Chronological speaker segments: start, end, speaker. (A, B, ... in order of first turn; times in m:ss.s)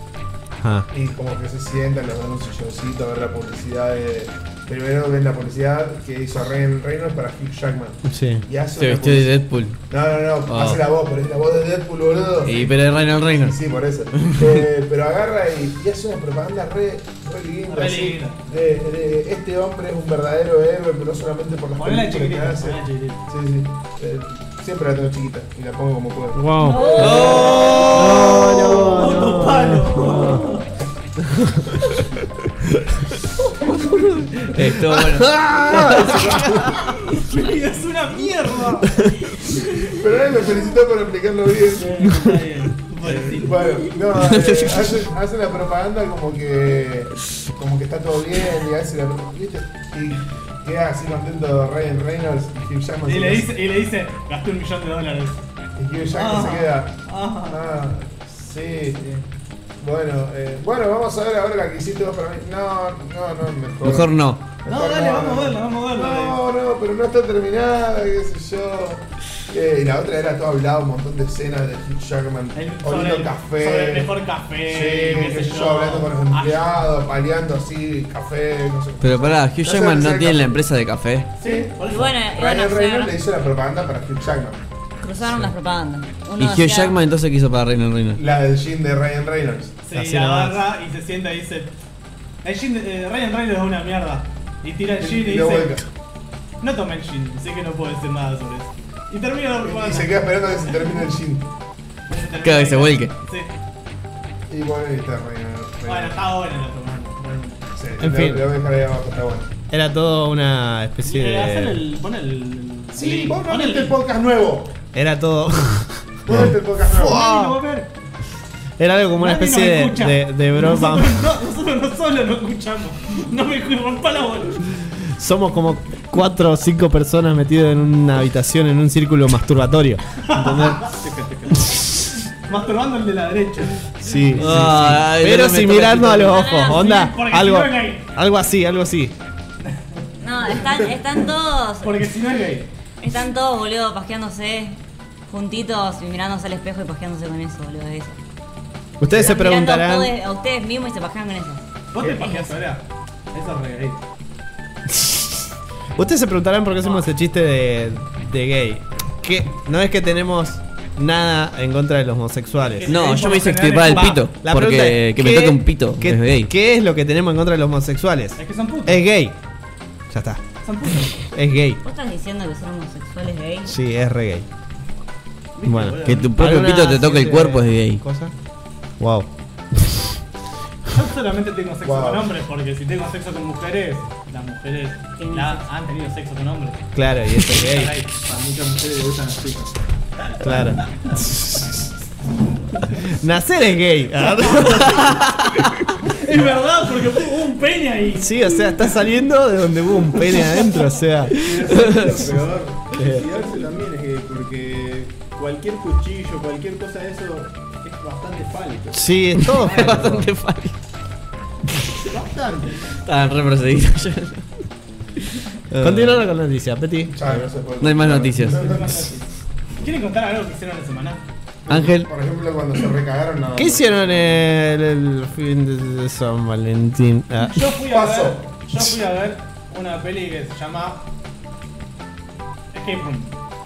0:00.6-0:00.9 A
0:00.9-0:09.4 B
0:08.0-0:08.4 A
0:08.7-0:09.8 C
0:09.9-0:27.8 B
0:10.4-0:10.8 C
0:12.4-0:13.6 C
0:14.3-0:14.6 C
0:17.7-0:18.6 D
0:21.8-0:23.2 D
0:26.3-0:30.5 A
0:26.6-0:27.1 E
0:26.7-0:30.6 D
0:27.0-0:28.5 C
0:31.3-0:31.8 A
0:32.6-0:33.0 A
0:33.7-0:36.6 C
0:34.5-0:36.7 A
0:37.0-0:39.0 D
0:39.6-0:39.9 D
0:39.8-0:42.2 B
0:41.7-0:43.7 D
0:42.1-0:42.4 A
0:43.0-0:53.5 B
0:44.2-0:44.8 C
0:53.0-0:55.4 D
0:55.8-0:59.2 B
0:56.1-0:57.6 D
0:59.8-1:14.1 B
1:03.8-1:04.4 C
1:04.6-1:06.4 D
1:12.5-1:16.6 D
1:14.6-1:20.6 B
1:19.0-1:21.3 C
1:21.4-1:22.1 D
1:21.4-1:24.6 B
1:21.8-1:23.1 E
1:25.0-1:27.0 E
1:25.2-1:25.5 B
1:26.4-1:28.2 C
1:28.1-1:29.8 B
1:29.8-1:31.7 D
1:29.9-1:30.6 A
1:32.4-1:35.7 D
1:35.0-1:35.9 B
1:36.6-1:40.2 D
1:39.6-1:41.5 B
1:42.1-1:43.5 D
1:42.4-1:43.1 C
1:44.5-1:46.2 B
1:45.8-1:47.6 D
1:47.7-1:49.5 B
1:48.0-1:48.5 A
1:49.7-1:51.8 A
1:51.0-1:54.0 D
1:52.9-1:54.7 B
1:54.9-1:57.6 A
1:56.3-1:57.2 B
1:56.9-1:57.9 D
1:58.8-2:01.3 A
1:59.1-2:04.6 D
2:04.9-2:10.8 A
2:10.2-2:10.8 D
2:10.8-2:11.8 F
2:12.4-2:13.9 D
2:14.0-2:19.1 A
2:14.4-2:16.4 C
2:16.2-2:17.0 E
2:16.5-2:18.1 D
2:19.7-2:20.9 D
2:20.2-2:22.1 E
2:21.8-2:22.7 D
2:23.0-2:24.8 E
2:25.3-2:28.2 E
2:29.0-2:30.1 A
2:29.1-2:32.5 E
2:31.9-2:34.0 D
2:34.9-2:35.3 A
2:36.0-2:43.0 A
2:36.8-2:37.1 D
2:42.7-2:44.2 D
2:42.9-2:46.5 C
2:44.4-2:49.4 A
2:48.4-2:49.0 D
2:50.1-2:50.4 A
2:50.6-2:51.2 D
2:51.1-2:51.8 A
2:51.8-2:53.7 E
2:53.6-2:54.5 A
2:55.6-2:56.3 D
2:55.6-2:58.3 A
2:56.0-2:58.0 C
2:59.0-3:00.1 A
3:00.9-3:06.8 D
3:01.8-3:02.3 B
3:05.2-3:05.6 E
3:06.9-3:07.9 A
3:07.4-3:08.1 D
3:08.1-3:09.8 F
3:10.4-3:11.8 A
3:12.9-3:15.6 A
3:14.4-3:14.9 D
3:16.0-3:18.3 D
3:18.2-3:22.3 A
3:21.3-3:30.2 F
3:21.9-3:22.4 B
3:22.9-3:23.3 A
3:28.9-3:30.2 A
3:29.5-3:30.7 C
3:32.1-3:32.7 D
3:32.1-3:32.8 F
3:32.9-3:34.6 C
3:35.7-3:36.2 C
3:35.8-3:37.4 A
3:37.1-3:39.1 B
3:37.8-3:38.8 C
3:38.4-3:39.2 D
3:39.8-3:41.2 D
3:41.6-3:44.4 B
3:41.7-3:42.1 C
3:43.5-3:47.6 A
3:47.4-3:51.0 D
3:47.8-3:48.5 B
3:52.7-3:53.3 D